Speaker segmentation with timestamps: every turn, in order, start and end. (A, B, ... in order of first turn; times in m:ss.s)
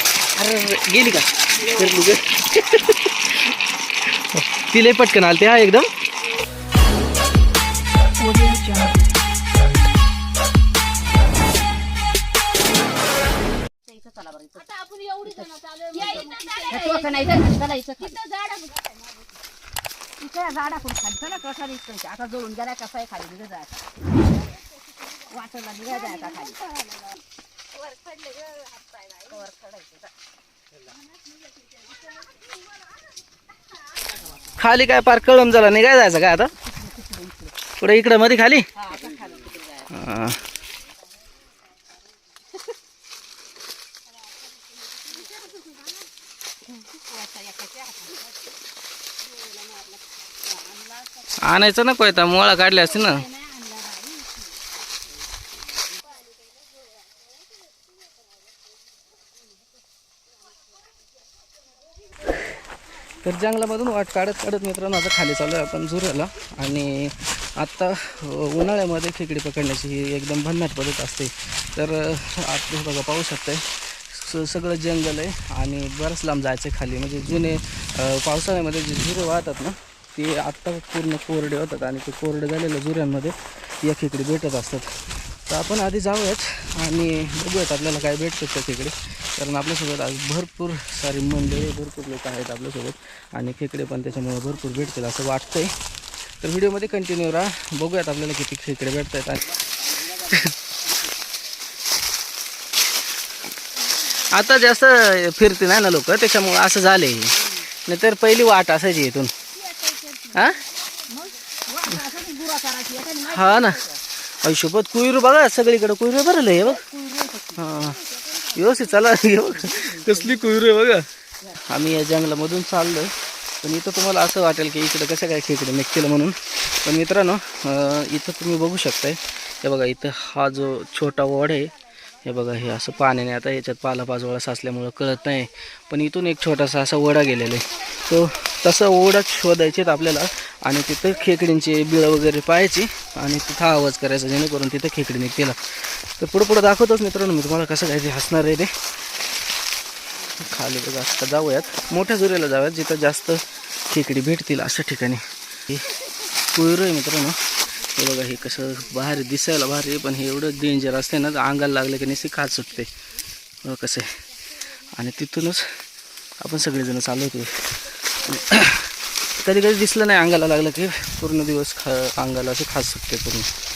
0:00.4-0:03.5 A
0:04.1-0:05.9 A
0:08.3-0:08.9 B
0:13.8-0:14.7 C
0:14.6-0:18.9 B
0:15.2-0:18.2 C
0:20.2-0:23.8 C
0:25.3-0:26.6 C
0:25.9-0:26.9 B
0:28.2-0:28.7 B
0:29.2-0:30.1 C
0:34.6-0:36.5 A
0:36.9-0:37.5 C
0:37.8-0:38.6 A
0:38.8-0:39.9 C
0:39.9-0:40.4 A
0:47.0-0:48.2 C
0:51.4-0:53.3 A
0:53.1-0:54.4 B
1:03.1-1:35.7 A
1:36.4-1:40.6 A
1:44.0-1:49.3 A
1:49.6-1:50.4 B
1:50.3-1:50.6 A
1:51.1-1:54.0 C
1:53.2-1:56.8 A
1:56.8-1:58.4 C
1:57.6-2:28.7 A
1:59.7-2:00.5 C
2:30.3-2:35.9 A
2:36.5-2:42.9 A
2:43.6-2:44.2 A
2:44.8-2:45.7 A
2:46.4-2:53.5 A